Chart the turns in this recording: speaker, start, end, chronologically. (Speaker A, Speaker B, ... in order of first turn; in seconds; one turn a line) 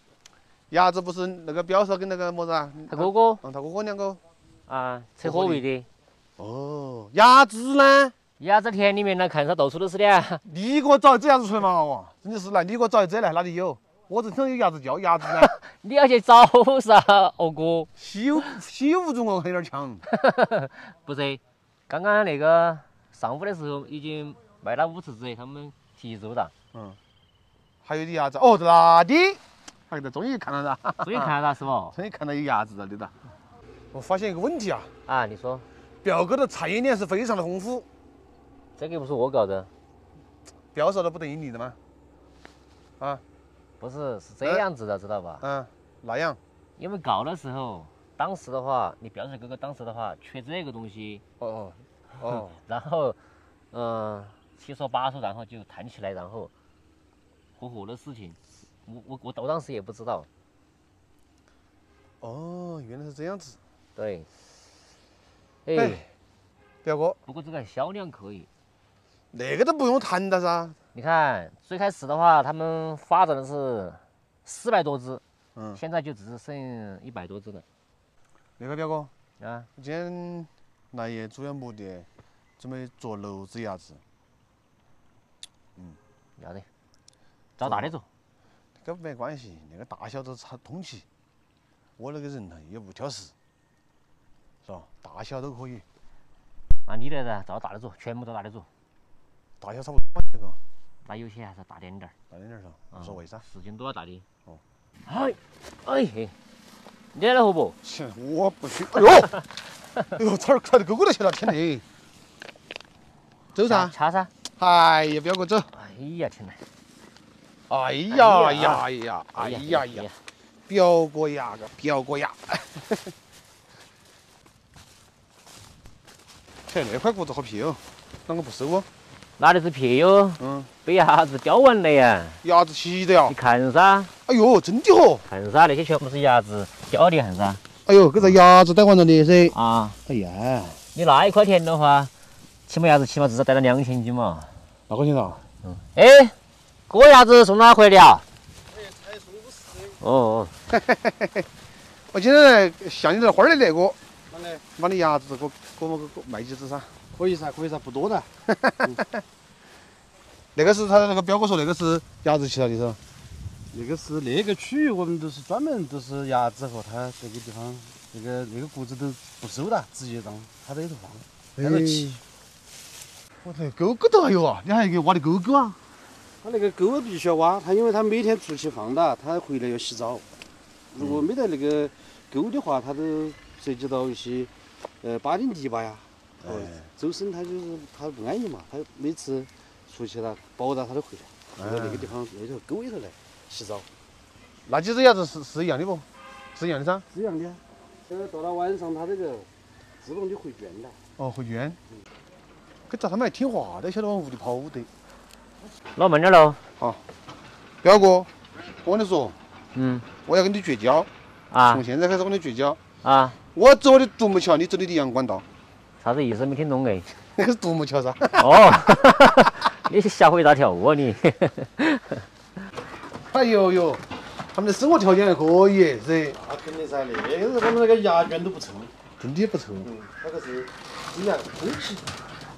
Speaker A: 0.7-4.2
Speaker B: 2.9-3.4
Speaker B: 4.7-5.9
Speaker A: 5.2-5.6
Speaker A: 6.4-8.1
Speaker B: 8.4-10.4
Speaker A: 10.4-15.5
Speaker B: 15.2-17.9
Speaker A: 18.0-20.1
Speaker B: 20.1-26.5
Speaker A: 26.7-27.0
Speaker A: 27.8-31.3
Speaker B: 31.0-31.9
Speaker A: 31.9-33.1
Speaker A: 33.9-34.9
Speaker B: 35.1-35.6
Speaker A: 36.0-37.9
Speaker B: 38.8-39.7
Speaker A: 40.7-41.8
Speaker B: 43.8-45.4
Speaker A: 45.4-46.4
Speaker B: 46.8-51.2
Speaker A: 51.4-52.6
Speaker B: 52.2-53.2
Speaker B: 53.7-56.5
Speaker B: 57.6-60.3
Speaker A: 62.2-63.6
Speaker B: 64.0-64.3
Speaker B: 65.7-66.0
Speaker A: 65.7-66.1
Speaker A: 66.8-67.2
Speaker B: 67.3-68.5
Speaker A: 69.3-70.8
Speaker B: 70.9-75.2
Speaker A: 75.5-75.8
Speaker B: 75.7-77.6
Speaker A: 78.6-79.1
Speaker B: 79.4-79.7
Speaker A: 79.8-82.1
Speaker A: 82.6-84.0
Speaker B: 86.4-86.7
Speaker B: 87.6-88.0
Speaker A: 87.6-87.9
Speaker A: 88.8-91.0
Speaker A: 92.0-93.3
Speaker A: 94.6-95.8
Speaker B: 96.9-98.7
Speaker A: 99.6-100.6
Speaker B: 101.0-102.1
Speaker A: 102.3-103.4
Speaker B: 102.9-104.2
Speaker B: 105.0-106.3
Speaker B: 107.1-107.8
Speaker A: 107.8-109.4
Speaker A: 110.1-111.8
Speaker A: 113.5-113.9
Speaker B: 113.6-114.3
Speaker A: 114.6-115.7
Speaker B: 115.7-116.6
Speaker A: 117.7-120.1
Speaker B: 118.1-120.2
Speaker A: 120.7-123.1
Speaker A: 126.7-128.9
Speaker B: 129.4-132.4
Speaker A: 130.4-130.7
Speaker A: 132.4-133.3
Speaker B: 133.3-134.1
Speaker A: 134.2-135.2
Speaker B: 135.3-137.6
Speaker A: 137.8-139.5
Speaker B: 139.5-140.0
Speaker A: 140.1-140.8
Speaker B: 140.9-142.1
Speaker B: 142.7-144.5
Speaker A: 144.9-145.4
Speaker B: 145.6-146.3
Speaker B: 146.9-148.2
Speaker C: 148.8-149.7
Speaker B: 150.0-150.5
Speaker A: 150.7-151.4
Speaker A: 152.1-154.0
Speaker C: 154.3-154.6
Speaker A: 154.8-156.9
Speaker C: 157.2-158.3
Speaker A: 158.5-159.0
Speaker A: 160.5-163.0
Speaker C: 163.7-172.2
Speaker A: 171.6-172.2
Speaker A: 173.4-175.8
Speaker C: 176.4-180.2
Speaker C: 180.9-184.5
Speaker A: 181.0-181.3
Speaker C: 185.0-193.9
Speaker A: 186.4-186.9
Speaker A: 191.6-192.1
Speaker A: 194.7-197.1
Speaker C: 197.1-199.5
Speaker C: 200.0-201.0
Speaker A: 201.2-201.8
Speaker A: 202.9-204.9
Speaker B: 205.9-206.6
Speaker A: 207.8-208.3
Speaker A: 208.8-209.3
Speaker B: 209.7-210.1
Speaker A: 210.2-211.1
Speaker B: 211.5-211.8
Speaker A: 211.7-212.8
Speaker B: 213.0-213.4
Speaker A: 213.5-215.4
Speaker B: 216.0-217.1
Speaker A: 217.3-218.7
Speaker B: 218.4-222.2
Speaker A: 223.3-224.0
Speaker A: 224.5-226.4
Speaker C: 226.3-228.9
Speaker A: 229.2-229.9
Speaker C: 229.8-232.1